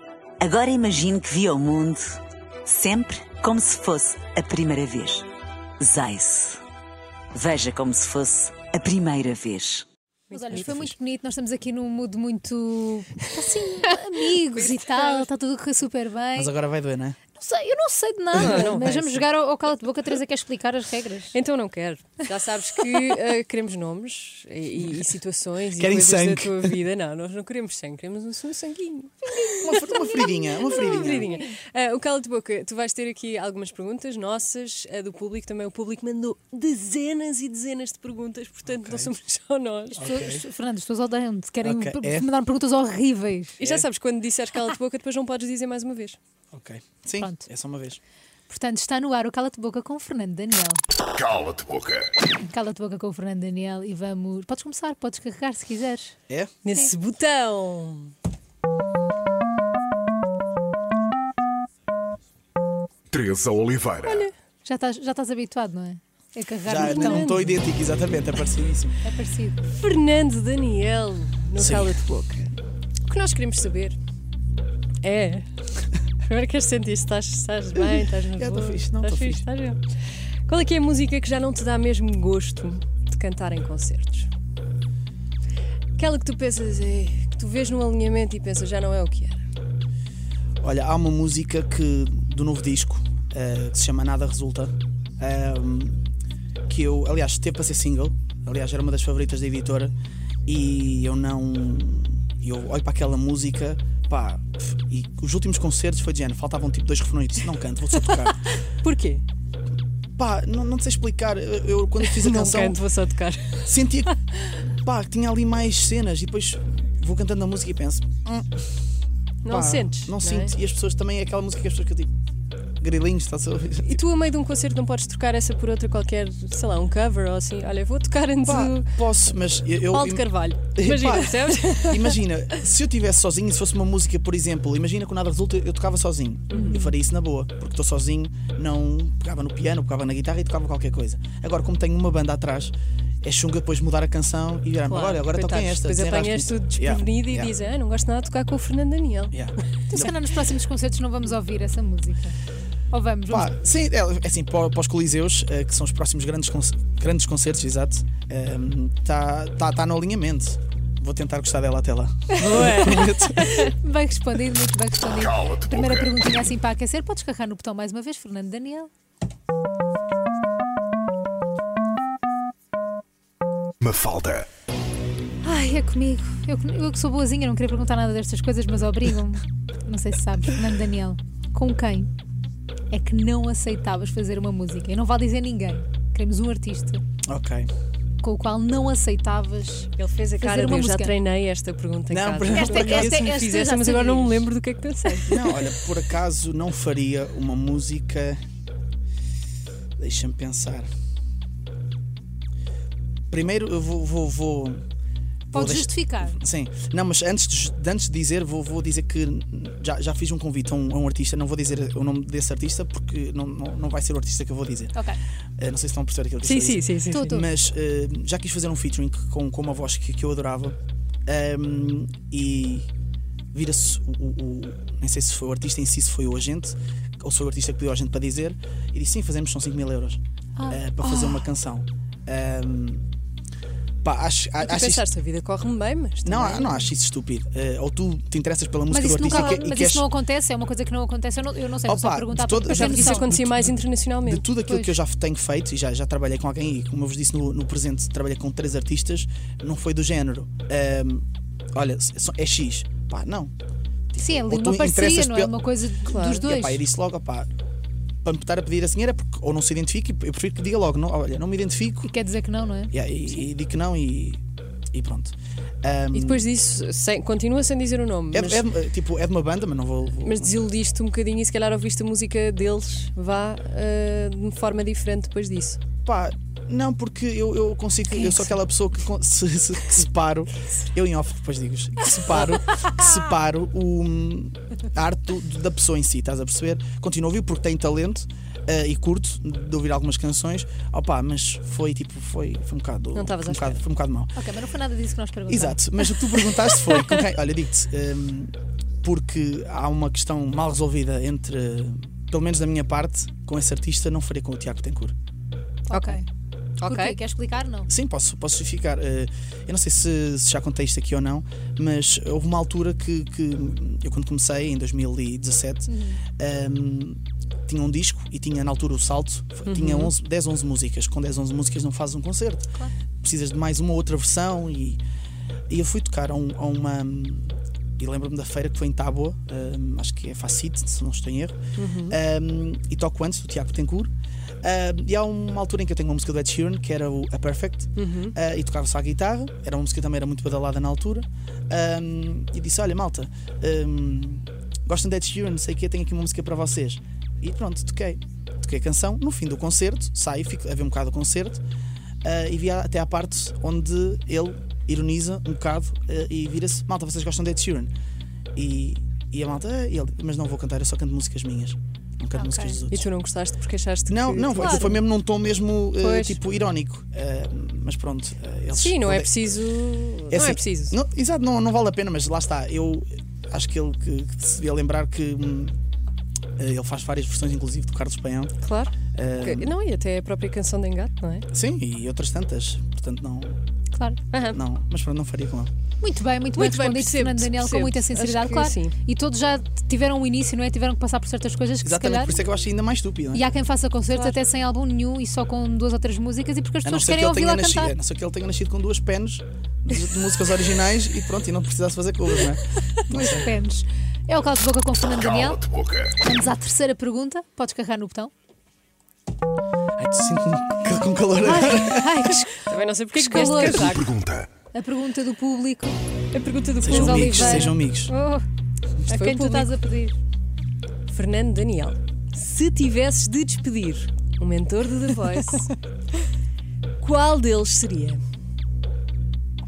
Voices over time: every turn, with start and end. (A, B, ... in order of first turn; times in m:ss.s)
0:00.4-0:05.3 A
0:05.8-0:06.6 A
0:07.3-0:09.8 A
0:10.3-0:16.5 B
0:10.3-0:10.9 C
0:14.4-0:15.3 C
0:16.3-0:17.2 D
0:17.3-0:21.4 B
0:18.3-0:19.2 C
0:18.3-0:18.7 D
0:21.3-0:40.0 C
0:25.8-0:26.8 D
0:29.3-0:31.5 B
0:29.6-0:31.3 D
0:38.7-0:39.1 D
0:39.9-0:40.4 D
0:40.0-0:43.6 B
0:41.6-0:42.3 D
0:43.6-0:46.2 C
0:46.5-0:48.0 D
0:47.2-0:47.5 B
0:48.5-0:50.8 B
0:51.2-0:52.1 E
0:52.4-0:56.1 B
0:56.6-0:58.1 C
1:03.1-1:04.1 E
1:04.0-1:04.3 C
1:04.6-1:07.3 B
1:06.6-1:09.0 D
1:06.8-1:07.6 C
1:09.0-1:09.6 B
1:09.6-1:12.5 C
1:11.6-1:12.0 D
1:13.1-1:14.0 C
1:15.0-1:15.5 C
1:16.2-1:19.8 C
1:17.8-1:19.4 D
1:20.5-1:24.3 C
1:26.0-1:29.4 C
1:30.6-1:36.0 D
1:36.7-1:39.9 D
1:40.4-1:48.4 D
1:48.1-1:49.2 C
1:50.2-1:52.8 D
1:52.0-1:54.1 C
1:53.6-1:58.6 D
1:59.4-2:00.5 C
1:59.4-2:02.1 D
2:02.8-2:04.0 D
2:03.9-2:08.9 C
2:08.4-2:27.5 D
2:09.9-2:12.2 C
2:16.5-2:16.9 C
2:16.6-2:16.8 B
2:24.8-2:29.4 C
2:29.3-2:30.1 D
2:29.9-2:32.4 B
2:32.9-2:33.5 B
2:33.3-2:43.4 D
2:42.3-2:48.9 B
2:42.5-2:43.7 C
2:45.3-2:46.1 E
2:53.8-2:54.4 E
2:55.4-3:02.1 B
3:02.9-3:07.0 B
3:07.2-3:07.7 D
3:08.2-3:11.2 B
3:10.0-3:15.7 C
3:12.1-3:13.3 D
3:12.5-3:14.4 B
3:15.3-3:18.4 D
3:20.0-3:20.9 D
3:23.3-3:24.8 D
3:25.5-3:26.4 B
3:25.5-3:34.9 D
3:35.6-3:42.9 D
3:36.4-3:37.2 C
3:37.1-3:37.5 B
3:43.5-3:53.0 D
3:50.6-3:51.5 B
3:54.0-3:55.0 D
3:54.6-3:56.8 C
3:56.2-4:00.0 D
3:58.9-4:03.3 B
4:01.8-4:13.5 D
4:02.7-4:04.4 C
4:04.6-4:05.0 B
4:14.1-4:15.5 D
4:14.2-4:16.8 B
4:16.1-4:16.4 C
4:16.3-4:17.5 D
4:18.2-4:22.1 D
4:22.0-4:22.9 B
4:22.9-4:24.4 D
4:24.9-4:26.4 D
4:26.1-4:28.7 C
4:28.3-4:30.5 D
4:30.2-4:35.8 C
4:36.0-4:54.3 D
4:38.1-4:38.5 B
4:53.1-4:53.8 C
4:54.3-4:56.1 B
4:55.5-5:05.1 D
5:05.9-5:06.2 C
5:05.9-5:06.2 B
5:06.8-5:07.2 C
5:06.8-5:07.9 B
5:07.9-5:22.7 D
5:15.8-5:16.2 B
5:19.6-5:20.1 C
5:23.2-5:25.0 D
5:25.7-5:31.5 D
5:31.8-5:32.2 C
5:32.1-5:34.1 D
5:34.6-5:51.6 D
5:38.0-5:38.3 C
5:52.2-5:57.9 D
5:58.5-6:03.0 D
6:02.3-6:02.8 B
6:02.9-6:05.0 C
6:04.1-6:09.3 D
6:04.5-6:04.9 B
6:06.0-6:06.4 C
6:08.7-6:11.0 C
6:10.3-6:15.8 D
6:16.6-6:18.5 D
6:18.6-6:21.4 C
6:19.1-6:19.7 D
6:21.5-6:23.6 D
6:23.9-6:24.2 B
6:24.3-6:24.6 C
6:24.5-6:25.7 D
6:26.0-6:32.4 B
6:26.6-6:28.9 C
6:31.8-6:33.5 D
6:33.3-6:37.9 B
6:34.1-6:34.4 C
6:36.8-6:43.5 D
6:43.1-6:48.3 B
6:45.6-6:46.1 E
6:50.0-6:52.3 D
6:51.4-6:54.0 B
6:52.6-6:54.2 C
6:54.1-6:54.5 E
6:54.7-6:56.0 B
6:56.3-6:57.8 C
6:56.8-6:58.1 D
6:56.8-6:58.4 B
6:59.1-7:00.2 B
6:59.1-6:59.7 C
7:01.1-7:05.7 C
7:07.0-7:08.2 C